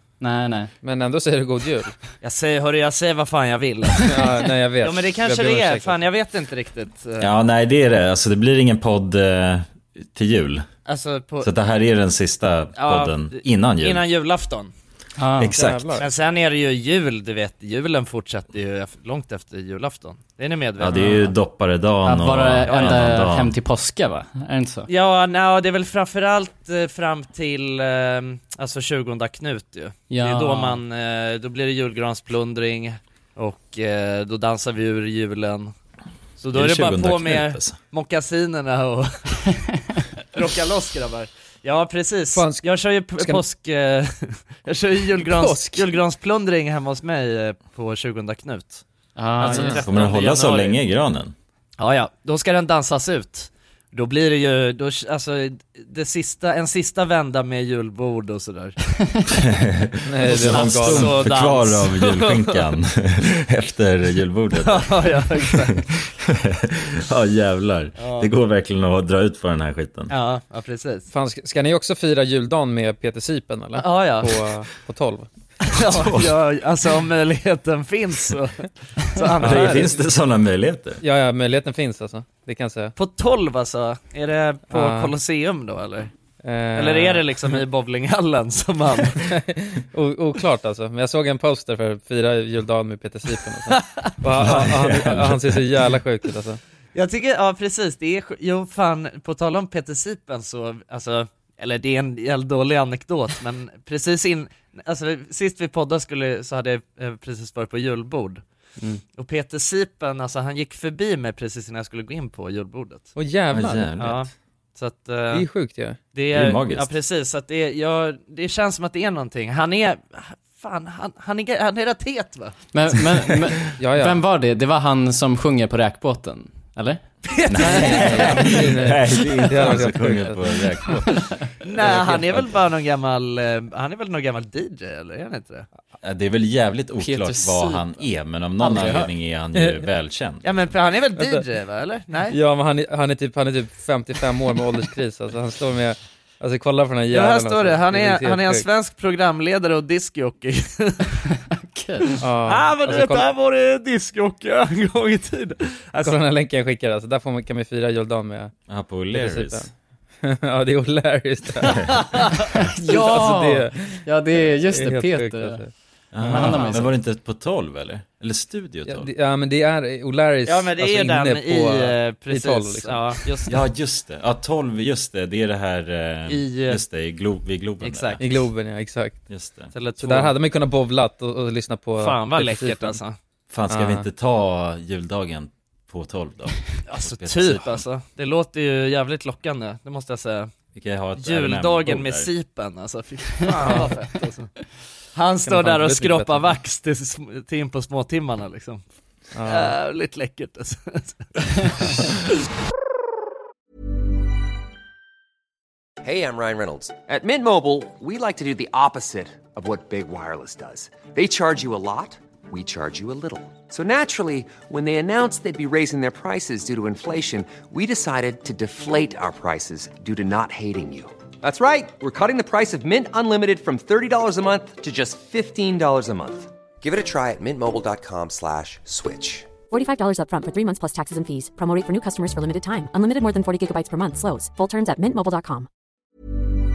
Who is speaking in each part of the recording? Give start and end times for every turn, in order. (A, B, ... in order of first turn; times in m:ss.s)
0:00.2-0:00.7 A
0:00.8-0:01.9 B
0:02.2-0:04.2 C
0:04.0-0:06.0 B
0:04.8-0:07.3 C
0:07.2-0:10.7 D
0:10.8-0:11.5 C
0:11.4-0:14.0 D
0:12.8-0:14.7 C
0:15.2-0:15.5 A
0:15.4-0:16.0 D
0:15.5-0:16.0 B
0:16.0-0:21.2 C
0:20.8-0:23.6 D
0:22.0-0:24.9 A
0:22.6-0:23.0 C
0:24.9-0:35.7 C
0:30.1-0:30.8 A
0:36.4-0:39.2 C
0:36.5-0:37.8 D
0:40.3-0:48.8 C
0:42.3-0:42.6 B
0:45.2-0:45.8 B
0:49.2-0:49.7 A
0:49.4-0:50.8 C
0:49.4-0:51.3 D
0:51.8-0:58.8 C
0:59.3-1:10.1 D
1:00.0-1:01.1 B
1:00.5-1:02.6 C
1:04.6-1:05.7 C
1:08.0-1:08.3 C
1:10.1-1:11.1 C
1:11.1-1:15.3 B
1:13.8-1:14.3 C
1:15.6-1:19.9 C
1:15.8-1:16.3 D
1:19.4-1:21.0 D
1:21.0-1:22.9 B
1:23.0-1:26.1 C
1:24.7-1:25.1 B
1:26.4-1:27.2 B
1:26.7-1:29.2 C
1:29.2-1:36.6 B
1:33.7-1:34.1 C
1:34.4-1:35.8 D
1:36.9-1:48.4 C
1:49.2-1:53.1 C
1:53.2-1:53.9 B
1:53.5-1:54.2 D
1:54.0-1:55.5 C
1:55.3-1:56.0 B
1:56.1-2:02.5 C
1:56.3-1:56.9 D
2:02.7-2:08.5 A
2:03.8-2:04.2 B
2:07.2-2:08.5 C
2:07.6-2:12.5 D
2:07.8-2:10.4 B
2:11.6-2:15.7 C
2:16.0-2:20.7 D
2:17.0-2:18.0 A
2:18.6-2:19.1 A
2:19.5-2:19.8 B
2:20.4-2:22.4 C
2:21.2-2:21.4 B
2:22.3-2:28.6 B
2:27.1-2:31.2 C
2:31.6-2:32.2 A
2:32.2-2:33.3 B
2:32.4-2:36.1 C
2:36.0-2:38.5 B
2:38.7-2:39.7 D
2:39.1-2:39.7 B
2:40.2-2:42.0 B
2:41.6-2:42.0 D
2:42.1-2:42.4 C
2:42.6-2:45.6 A
2:42.8-2:44.0 B
2:44.7-2:46.6 B
2:46.1-2:49.1 D
2:46.2-2:46.9 A
2:48.9-2:53.3 B
2:50.4-2:53.5 C
2:53.5-2:58.2 D
2:56.3-2:56.8 C
2:57.8-2:58.4 C
2:58.2-2:59.2 B
2:59.3-2:59.7 D
2:59.7-3:00.3 C
3:00.0-3:03.0 B
3:02.0-3:03.2 C
3:03.5-3:07.8 D
3:03.7-3:04.0 B
3:06.8-3:10.5 C
3:10.7-3:12.3 D
3:11.2-3:14.5 C
3:13.5-3:13.8 A
3:13.6-3:13.9 B
3:15.1-3:18.8 C
3:15.4-3:16.6 B
3:19.3-3:19.8 B
3:19.4-3:22.0 C
3:26.0-3:49.5 E
3:49.7-3:55.7 F